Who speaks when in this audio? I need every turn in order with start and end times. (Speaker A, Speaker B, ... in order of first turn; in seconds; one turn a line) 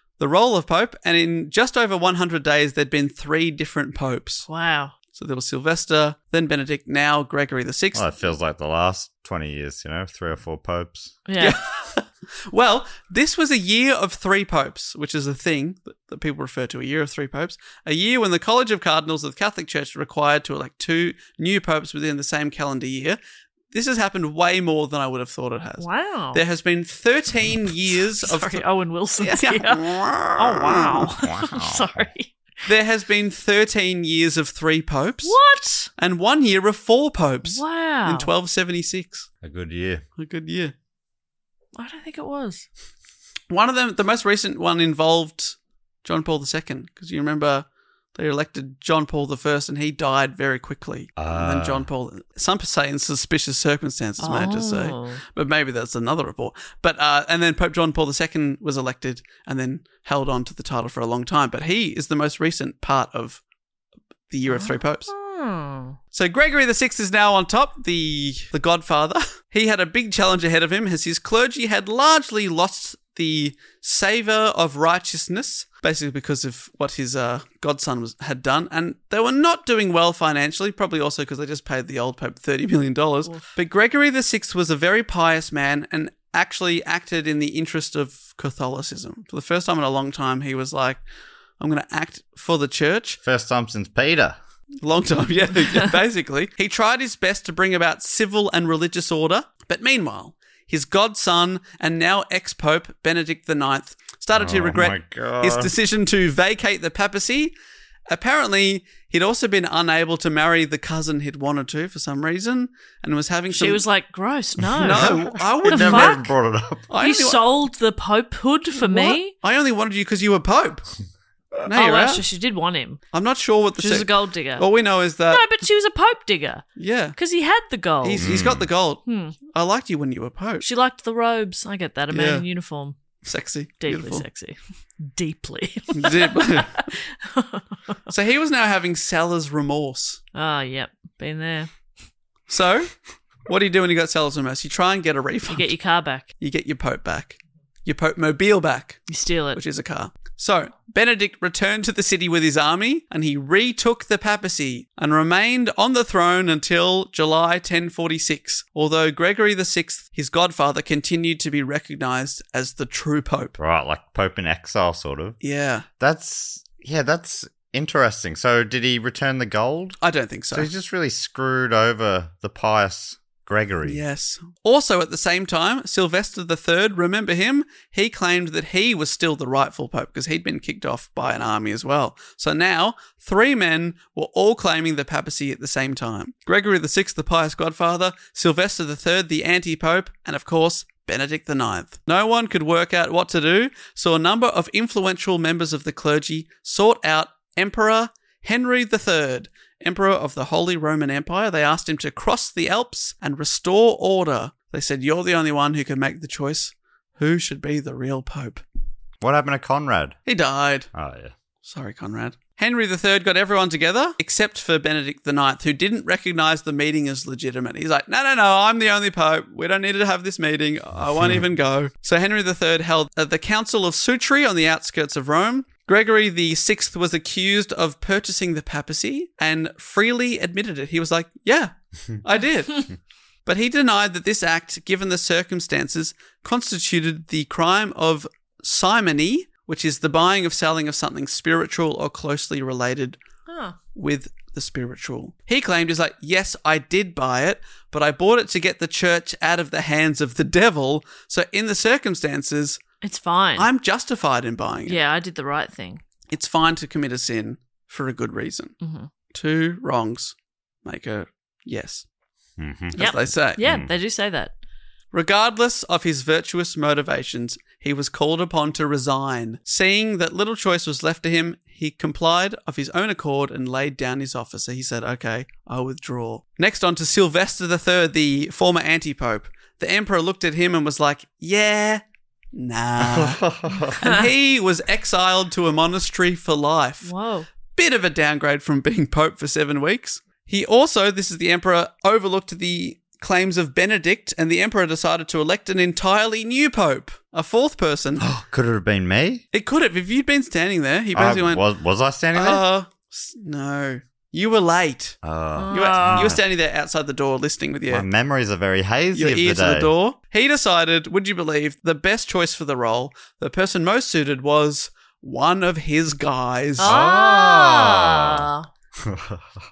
Speaker A: 0.2-4.5
Speaker B: 4.5-4.9
Speaker A: 5.2-8.1
Speaker C: 7.9-11.1
Speaker B: 11.3-11.6
Speaker A: 11.4-23.2
Speaker A: 23.7-28.6
Speaker B: 25.8-26.4
Speaker B: 27.9-32.3
Speaker A: 29.2-31.1
Speaker C: 31.2-32.1
Speaker A: 32.7-35.4
Speaker B: 35.2-35.9
Speaker A: 36.0-39.3
Speaker B: 37.5-38.3
Speaker C: 39.4-40.0
Speaker A: 40.2-40.7
Speaker B: 41.8-42.7
Speaker A: 43.5-63.4
Speaker C: 51.2-51.9
Speaker B: 54.2-55.2
Speaker A: 64.3-65.1
Speaker B: 64.5-66.0
Speaker A: 66.1-91.0
Speaker B: 83.3-83.6
Speaker A: 91.6-93.2
Speaker C: 93.2-94.4
Speaker A: 94.8-107.5
Speaker C: 104.3-105.7
Speaker A: 108.1-113.8
Speaker B: 113.5-116.3
Speaker A: 114.8-116.3
Speaker C: 114.8-116.9
Speaker A: 116.9-117.4
Speaker B: 117.0-119.3
Speaker A: 118.8-120.9
Speaker A: 121.7-122.2
Speaker B: 121.7-123.0
Speaker A: 123.1-125.5
Speaker B: 123.8-124.7
Speaker B: 125.3-128.3
Speaker A: 126.8-127.2
Speaker A: 128.0-130.7
Speaker C: 128.2-128.7
Speaker B: 129.1-129.4
Speaker B: 130.6-133.0
Speaker A: 132.1-132.4
Speaker A: 133.2-134.2
Speaker B: 133.8-137.7
Speaker A: 135.9-136.8
Speaker A: 138.1-140.2
Speaker B: 140.3-141.7
Speaker A: 142.5-142.9
Speaker A: 143.5-145.7
Speaker B: 145.5-146.3
Speaker A: 146.4-149.0
Speaker B: 149.1-149.6
Speaker A: 149.6-163.6
Speaker C: 163.6-165.4
Speaker A: 165.4-165.9
Speaker C: 166.0-170.0
Speaker A: 170.0-170.7
Speaker C: 170.5-174.0
Speaker A: 173.8-208.6
Speaker C: 209.2-210.2
Speaker A: 210.3-210.9
Speaker C: 210.9-211.3
Speaker A: 211.6-232.9
Speaker A: 233.5-243.2
Speaker B: 243.5-243.8
Speaker A: 243.9-252.8
Speaker B: 253.0-253.7
Speaker A: 253.6-255.0
Speaker B: 254.9-256.0
Speaker A: 256.3-258.8
Speaker B: 258.8-259.1
Speaker A: 259.3-262.1
Speaker C: 262.6-263.0
Speaker A: 262.9-263.6
Speaker B: 263.0-264.5
Speaker C: 263.6-263.9
Speaker A: 265.1-282.0
Speaker A: 282.5-287.1
Speaker C: 283.0-284.0
Speaker B: 284.0-284.3
Speaker B: 287.0-287.5
Speaker A: 287.7-298.2
Speaker C: 298.2-299.4
Speaker A: 299.5-301.6
Speaker C: 301.1-302.6
Speaker A: 302.3-305.2
Speaker C: 305.2-306.4
Speaker B: 305.6-306.4
Speaker A: 305.7-308.1
Speaker C: 307.9-309.9
Speaker A: 309.1-316.9
Speaker B: 316.8-318.7
Speaker C: 316.8-318.5
Speaker C: 319.0-319.4